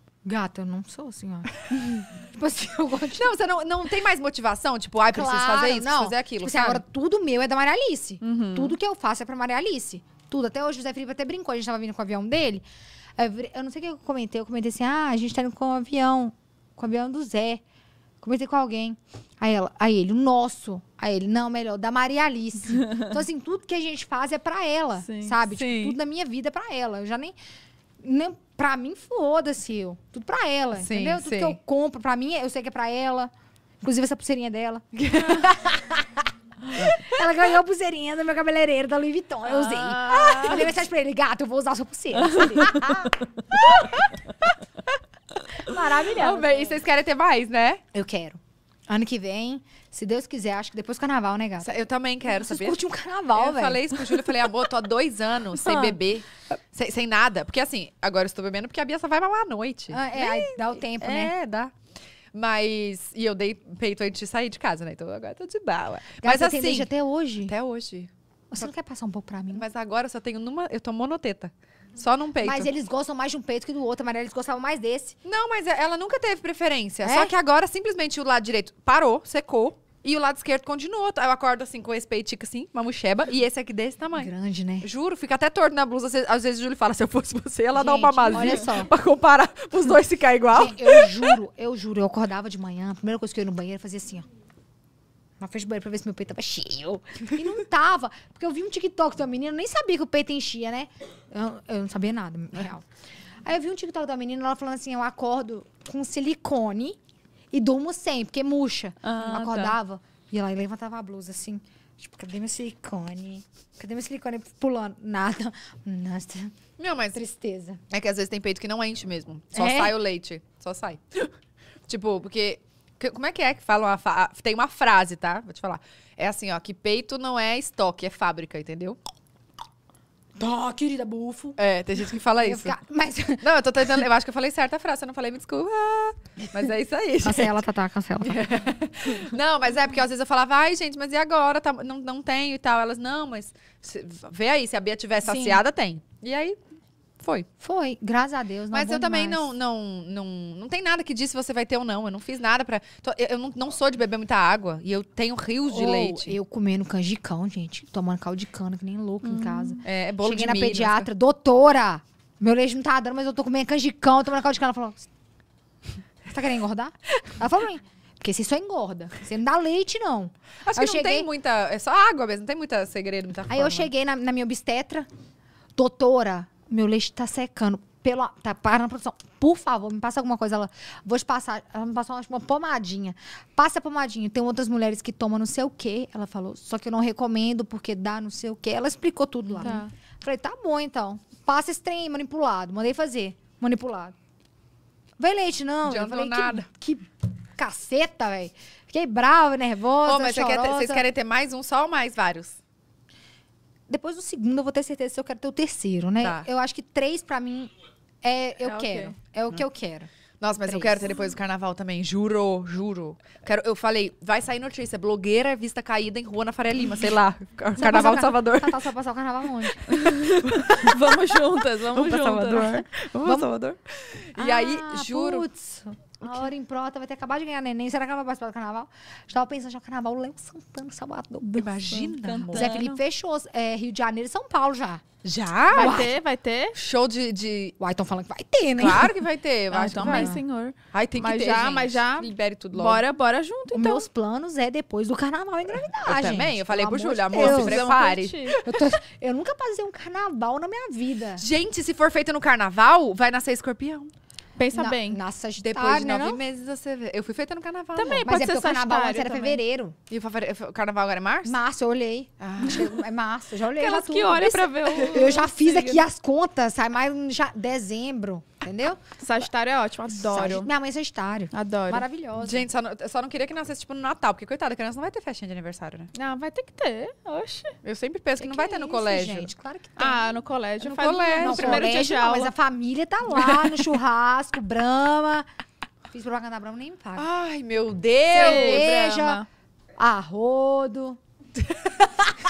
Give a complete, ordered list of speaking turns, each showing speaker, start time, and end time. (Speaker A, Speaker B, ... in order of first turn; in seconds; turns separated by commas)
Speaker A: 0.2-3.3, Speaker B: 3.1-6.8, Speaker A: 5.1-12.6, Speaker C: 8.2-8.7, Speaker A: 13.2-17.6, Speaker A: 18.2-27.4, Speaker B: 25.5-26.0, Speaker A: 28.0-33.3, Speaker B: 30.8-31.6, Speaker A: 33.8-43.2, Speaker B: 35.0-35.4, Speaker C: 39.5-40.7, Speaker B: 43.5-44.1, Speaker A: 45.6-46.8, Speaker B: 45.6-47.8, Speaker A: 47.9-51.7, Speaker B: 51.6-52.8, Speaker A: 52.3-54.4, Speaker B: 53.3-61.7, Speaker A: 55.5-56.0, Speaker A: 59.9-61.3, Speaker B: 62.3-66.9, Speaker A: 66.2-67.5, Speaker B: 67.4-68.1, Speaker A: 68.5-69.7, Speaker B: 69.5-72.7, Speaker A: 72.4-75.2, Speaker B: 75.2-91.3, Speaker A: 77.0-77.3, Speaker A: 84.1-84.9, Speaker A: 87.7-88.9, Speaker A: 90.5-94.2, Speaker A: 95.4-102.8, Speaker A: 103.4-107.0, Speaker A: 107.5-116.5, Speaker C: 109.0-109.7, Speaker B: 116.8-117.2, Speaker A: 117.1-117.8, Speaker B: 117.9-121.3, Speaker A: 119.5-120.0, Speaker B: 121.9-129.0, Speaker A: 130.4-131.6, Speaker B: 131.6-132.8, Speaker A: 132.1-133.4, Speaker B: 133.4-137.6, Speaker A: 137.2-138.4, Speaker B: 138.2-146.6, Speaker A: 145.2-145.6, Speaker B: 147.2-147.5, Speaker A: 147.6-149.5, Speaker B: 148.7-156.4, Speaker A: 155.7-165.1, Speaker C: 159.2-159.8, Speaker B: 159.8-161.1, Speaker A: 166.3-171.3, Speaker B: 170.6-173.9, Speaker A: 173.5-175.1, Speaker A: 175.8-194.1, Speaker C: 189.6-189.9, Speaker A: 195.2-201.0, Speaker B: 195.8-196.7, Speaker B: 200.0-202.6, Speaker A: 203.9-207.7, Speaker B: 206.2-206.5, Speaker A: 208.2-210.1, Speaker C: 208.6-209.1, Speaker B: 210.4-218.9, Speaker A: 210.6-211.1, Speaker A: 217.8-219.9, Speaker B: 219.8-225.4, Speaker C: 220.0-222.8, Speaker A: 222.4-223.5, Speaker A: 224.3-235.0, Speaker B: 231.5-233.0, Speaker C: 232.2-232.8, Speaker B: 235.2-236.1, Speaker C: 235.7-236.7, Speaker A: 235.8-236.1, Speaker B: 236.7-237.8, Speaker A: 237.8-239.2, Speaker B: 238.8-240.4, Speaker C: 239.7-244.1, Speaker A: 239.9-240.4, Speaker B: 240.9-243.0, Speaker A: 243.7-247.8, Speaker B: 245.8-248.8, Speaker C: 247.3-248.6, Speaker A: 248.6-251.4, Speaker B: 251.4-254.1, Speaker C: 254.6-255.2, Speaker A: 254.7-256.4, Speaker B: 255.6-258.2, Speaker C: 257.9-259.6, Speaker A: 258.2-259.9, Speaker B: 260.1-261.6, Speaker A: 261.4-269.0, Speaker B: 262.4-262.9, Speaker C: 263.7-266.0, Speaker C: 269.2-270.7, Speaker A: 270.1-272.7, Speaker C: 271.5-272.1, Speaker B: 272.4-276.1, Speaker C: 276.1-277.8, Speaker B: 277.8-279.5, Speaker A: 278.4-280.4, Speaker C: 280.0-282.5, Speaker B: 280.8-281.9, Speaker A: 281.4-285.4, Speaker B: 283.3-283.8, Speaker A: 286.1-287.3, Speaker B: 287.1-288.9, Speaker C: 288.3-289.5, Speaker A: 288.3-289.4, Speaker A: 290.0-291.2, Speaker B: 291.7-292.3